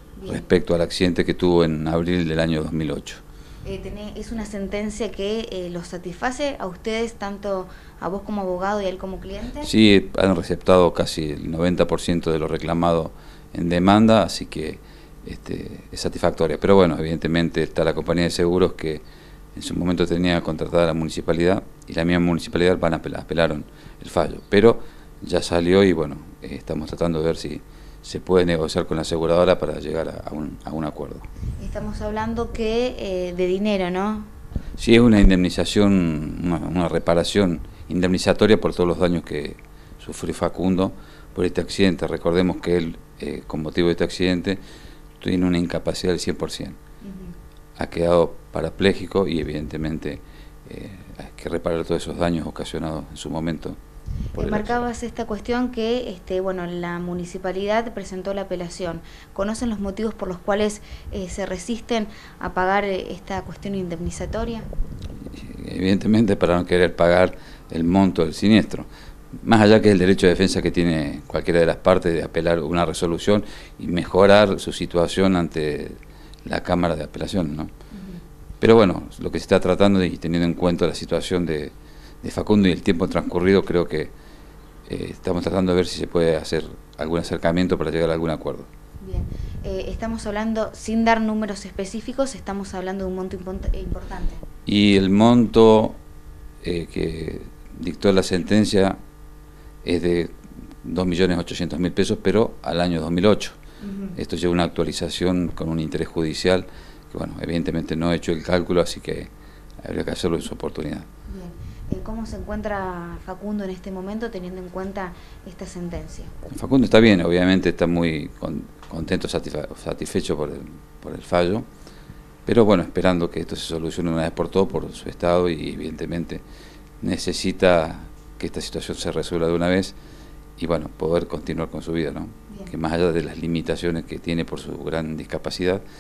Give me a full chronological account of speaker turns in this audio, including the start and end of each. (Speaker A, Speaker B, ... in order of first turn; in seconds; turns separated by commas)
Speaker A: 0.1-0.4, Speaker B: 0.3-3.2, Speaker A: 3.6-9.7, Speaker B: 9.6-19.0, Speaker B: 19.5-31.3, Speaker A: 31.6-34.3, Speaker B: 34.8-44.6, Speaker B: 45.2-46.8, Speaker A: 47.0-47.3, Speaker B: 47.8-53.8, Speaker B: 54.3-54.8, Speaker A: 54.4-64.7, Speaker B: 65.3-68.9, Speaker B: 69.4-77.7, Speaker A: 77.9-78.2, Speaker B: 78.6-84.1, Speaker B: 84.9-88.7, Speaker A: 89.0-94.4, Speaker B: 94.7-96.0, Speaker B: 96.6-99.0, Speaker B: 99.8-103.6, Speaker A: 103.8-104.2, Speaker B: 104.1-109.3, Speaker B: 109.8-111.1, Speaker A: 111.3-116.3, Speaker B: 116.5-121.7, Speaker B: 122.5-126.4, Speaker B: 127.0-129.9, Speaker B: 130.6-135.8